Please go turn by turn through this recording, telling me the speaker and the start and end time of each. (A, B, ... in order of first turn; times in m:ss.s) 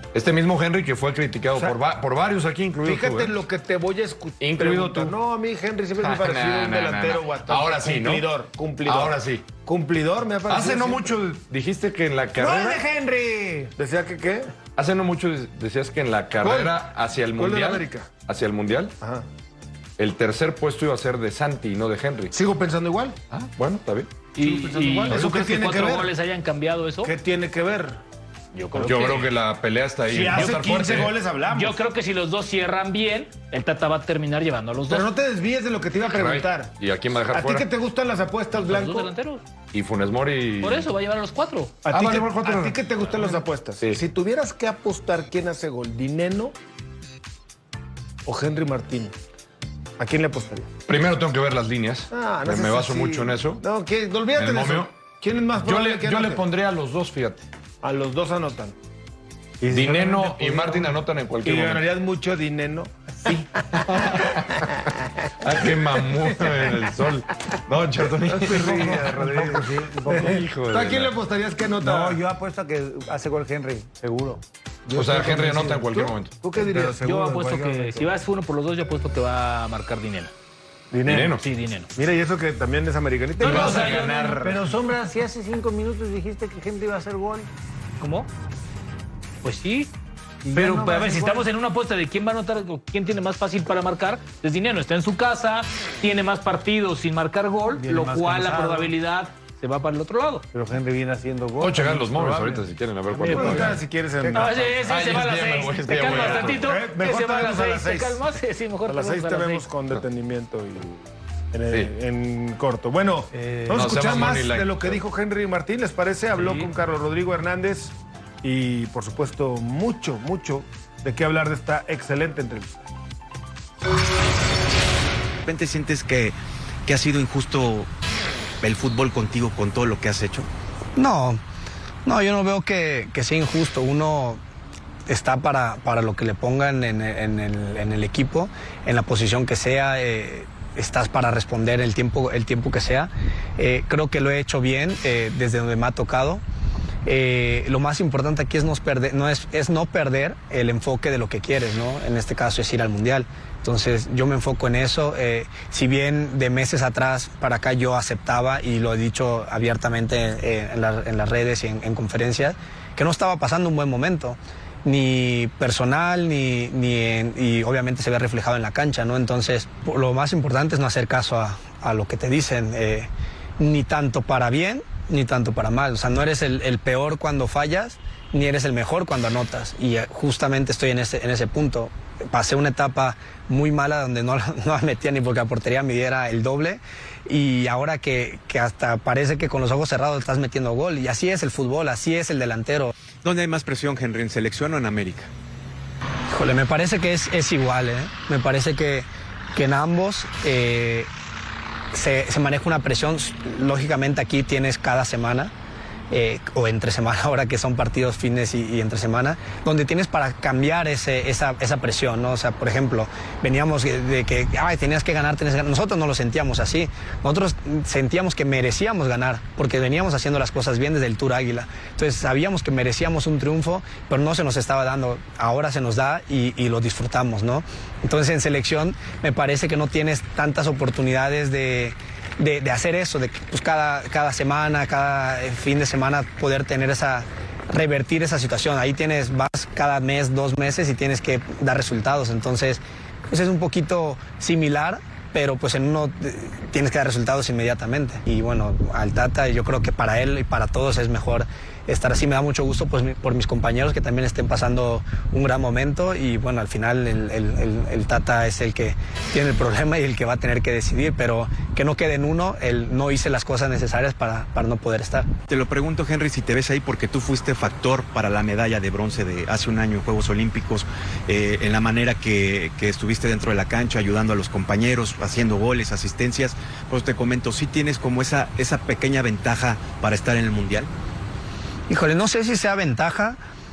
0:00.1-0:03.4 A
0:02.8-0:11.2 B
0:04.4-0:05.2 A
0:06.0-0:08.3 A
0:08.8-0:09.5 A
0:10.5-0:12.8 A
0:12.4-0:13.7 C
0:13.8-0:14.5 B
0:14.8-0:18.9 A
0:16.4-0:16.7 B
0:17.3-0:18.1 B
0:19.0-0:19.2 B
0:20.0-0:22.3 A
0:22.3-0:23.2 B
0:23.3-0:24.1 A
0:24.4-0:27.1 D
0:24.4-0:26.1 B
0:27.0-0:28.0 B
0:28.5-0:29.3 D
0:28.8-0:31.2 A
0:30.1-0:31.8 B
0:31.5-0:35.1 D
0:34.9-0:36.7 B
0:36.1-0:37.7 A
0:37.3-0:39.1 B
0:38.5-0:39.4 D
0:39.7-0:40.9 A
0:40.6-0:41.7 D
0:41.8-0:46.5 B
0:41.9-0:44.0 A
0:48.2-0:49.1 B
0:50.0-0:50.7 B
0:50.9-0:53.6 A
0:52.1-0:56.4 B
0:54.3-0:55.0 A
0:55.6-0:57.4 A
0:57.8-0:58.7 B
0:59.6-1:00.9 C
0:59.7-1:01.9 A
1:01.4-1:03.4 B
1:03.7-1:04.8 A
1:05.4-1:11.1 A
1:08.4-1:09.1 B
1:08.4-1:10.4 C
1:10.1-1:12.2 B
1:11.8-1:14.4 C
1:14.9-1:17.0 B
1:14.9-1:16.3 A
1:16.5-1:18.1 C
1:17.0-1:20.3 D
1:20.9-1:21.4 B
1:21.0-1:21.4 A
1:21.4-1:21.9 D
1:22.0-1:24.5 B
1:23.4-1:24.4 D
1:23.4-1:24.6 A
1:24.4-1:27.5 C
1:28.0-1:28.3 D
1:29.4-1:29.9 D
1:30.4-1:31.5 C
1:30.5-1:40.4 D
1:37.7-1:38.9 C
1:40.5-1:44.7 C
1:41.6-1:43.8 A
1:43.2-1:44.8 B
1:44.3-1:49.7 D
1:44.9-1:46.6 A
1:46.1-1:48.2 B
1:48.9-1:51.0 B
1:51.5-2:02.9 B
1:53.3-1:54.1 C
1:53.7-1:55.0 A
1:56.4-1:56.7 D
2:05.4-2:07.9 E
2:08.6-2:10.5 E
2:11.0-2:11.4 F
2:12.0-2:14.4 F
2:15.1-2:26.4 F
2:27.0-3:12.9 F
3:13.2-3:15.3 E
3:16.3-3:21.1 F
3:21.9-3:25.5 F
3:26.1-4:25.3 F
4:25.5-4:40.9 E
4:41.9-4:43.4 F